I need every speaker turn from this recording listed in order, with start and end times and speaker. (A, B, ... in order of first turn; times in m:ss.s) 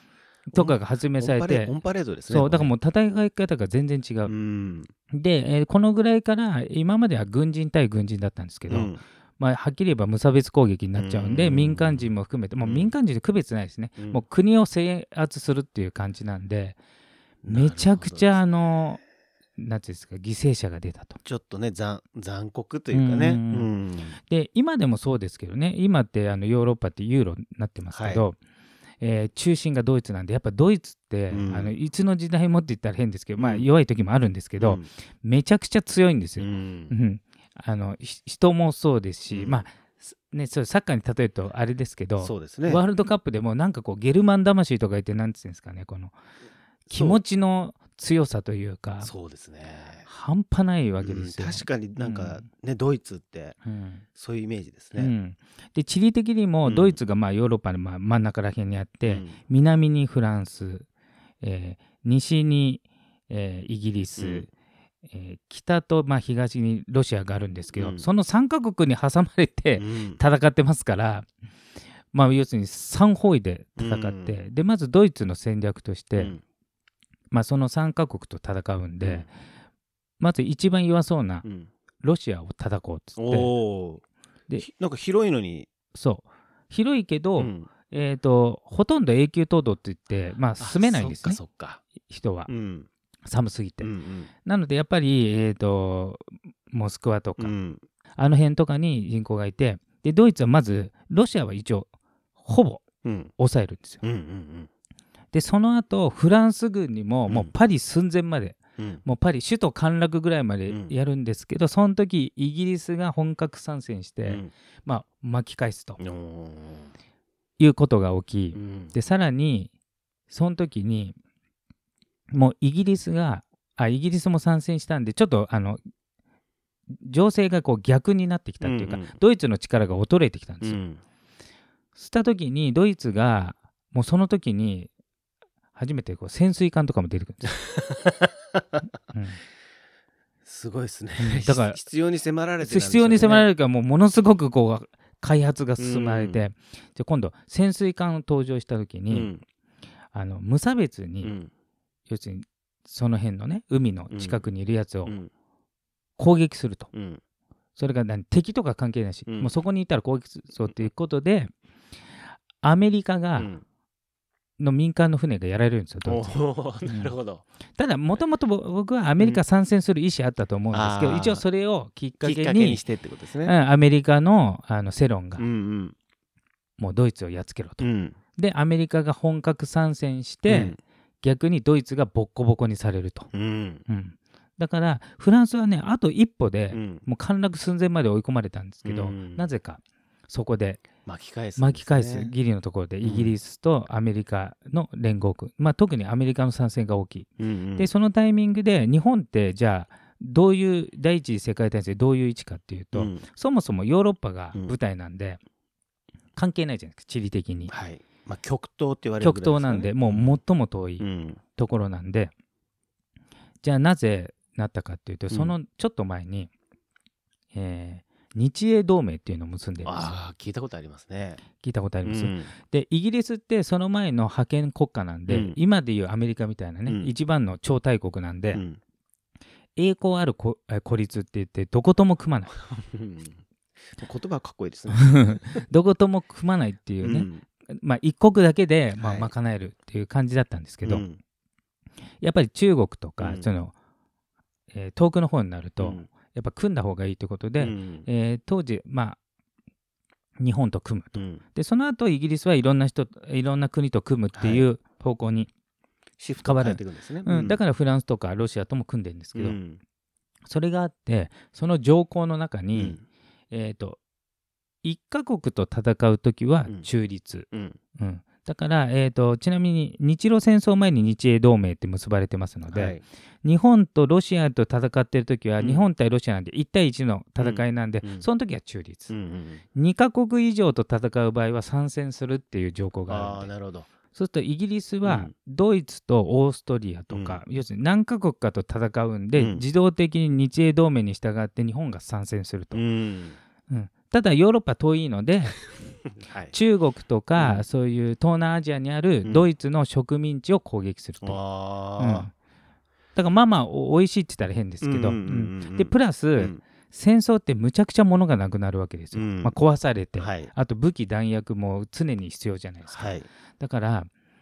0:00.5-0:01.8 A
0:00.5-0:02.7 B
0:02.3-0:04.3 A
0:04.2-0:04.9 B
0:05.1-0:16.8 A
0:08.7-0:09.0 B
0:11.0-0:12.1 B
0:12.6-0:12.9 B
0:17.4-0:18.4 B
0:17.5-0:19.0 A
0:19.6-0:21.2 A
0:21.2-0:24.2 B
0:22.9-0:23.7 A
0:24.3-0:28.4 A
0:27.9-0:28.2 B
0:29.0-0:46.1 A
0:31.3-0:31.7 B
0:33.4-0:33.7 B
0:34.6-0:34.9 B
0:36.4-0:36.9 B
0:39.3-0:39.6 B
0:42.2-0:42.8 B
0:46.9-0:47.2 B
0:46.9-0:49.1 A
0:49.0-0:50.1 B
0:50.0-0:52.4 A
0:51.0-0:53.6 B
0:53.6-0:54.0 A
0:54.1-0:55.1 B
0:55.0-1:00.8 A
0:56.6-0:57.0 B
0:59.0-0:59.4 B
1:01.4-1:04.5 A
1:04.2-1:04.5 B
1:05.1-1:11.3 A
1:07.7-1:08.0 B
1:09.8-1:10.2 B
1:12.1-1:16.4 A
1:13.8-1:14.4 B
1:16.2-1:16.4 B
1:17.3-1:19.3 A
1:19.0-1:19.3 B
1:20.2-1:21.4 A
1:21.4-1:21.7 B
1:22.0-1:23.5 A
1:23.2-1:24.0 B
1:24.6-1:25.7 B
1:25.9-1:31.4 A
1:27.4-1:27.7 B
1:30.6-1:31.8 B
1:32.0-1:32.5 A
1:32.5-1:32.9 B
1:33.3-1:33.9 A
1:33.8-1:34.3 B
1:34.4-1:37.5 A
1:37.4-1:37.8 B
1:38.2-1:41.9 A
1:42.4-1:42.8 A
1:43.0-1:43.3 B
1:43.4-1:44.0 A
1:44.0-1:44.7 B
1:45.3-1:56.0 A
1:47.3-1:47.5 B
1:54.2-1:54.5 B
1:56.0-1:56.9 B
1:57.6-1:59.7 A
1:58.5-1:58.9 B
2:00.3-2:01.2 A
2:02.3-2:05.8 A
2:07.0-2:10.8 A
2:08.6-2:09.1 B
2:10.6-2:11.0 B
2:11.9-2:14.9 A
2:15.7-2:17.6 A
2:17.6-2:18.6 B
2:19.1-2:19.4 A
2:20.4-2:23.5 B
2:21.2-2:21.8 A
2:22.6-2:29.3 A
2:25.8-2:26.4 B
2:29.1-2:29.4 B
2:30.1-2:31.3 A
2:31.2-2:31.5 B
2:32.1-2:35.2 A
2:34.1-2:34.4 B
2:36.2-2:36.9 A
2:36.9-2:37.2 B
2:37.8-2:41.5 A
2:39.3-2:39.5 B
2:42.6-2:43.5 A
2:43.3-2:43.6 B
2:44.6-2:47.1 A
2:46.0-2:47.4 B
2:47.8-2:52.8 A
2:50.7-2:51.4 B
2:52.2-2:53.5 B
2:53.4-2:55.4 A
2:55.4-2:55.9 B
2:56.8-3:03.3 A
2:57.8-2:58.2 B
3:00.5-3:00.8 B
3:03.3-3:03.8 B
3:03.9-3:10.8 A
3:06.7-3:07.0 B
3:08.8-3:09.5 B
3:11.0-3:12.3 B
3:11.6-3:25.4 A
3:13.0-3:13.3 B
3:17.4-3:17.9 B
3:22.9-3:23.2 B
3:26.4-3:27.7 A
3:27.7-3:30.3 B
3:29.2-3:32.3 A
3:31.0-3:31.4 B
3:33.6-3:36.5 A
3:37.5-3:40.1 A
3:39.8-3:41.4 B
3:41.6-3:48.6 A
3:42.0-3:42.5 B
3:45.3-3:45.6 B
3:46.9-3:47.1 B
3:48.5-3:48.8 B
3:49.8-3:52.5 A
3:52.7-3:53.4 B
3:53.9-3:55.6 B
3:54.9-4:01.0 A
3:57.0-3:57.4 B
3:59.0-3:59.3 B
4:00.8-4:01.2 B
4:02.2-4:03.7 A
4:03.2-4:03.5 B
4:04.7-4:09.2 A
4:05.8-4:06.1 B
4:07.6-4:08.1 B
4:10.4-4:15.5 A
4:11.1-4:11.4 B
4:14.3-4:14.6 B
4:16.2-4:17.6 B
4:16.4-4:19.6 A
4:19.3-4:19.8 B
4:20.4-4:23.0 A
4:22.7-4:23.0 B
4:23.5-4:24.0 A
4:24.8-4:39.1 A
4:27.5-4:27.8 B
4:32.7-4:33.0 B
4:35.6-4:35.9 B
4:37.4-4:38.3 B
4:39.1-4:39.6 B
4:39.7-4:43.5 A
4:43.1-4:43.9 B
4:44.1-4:52.8 A
4:45.0-4:45.3 B
4:47.1-4:47.4 B
4:49.3-4:49.6 B
4:52.7-4:53.4 B
4:53.7-4:55.6 A
4:56.2-4:56.5 B
4:56.5-5:01.4 A
4:57.4-4:57.6 B
5:01.2-5:02.3 B
5:02.0-5:02.3 A
5:03.1-5:14.1 A
5:04.8-5:06.6 B
5:09.1-5:09.5 B
5:10.2-5:10.5 B
5:12.9-5:13.3 B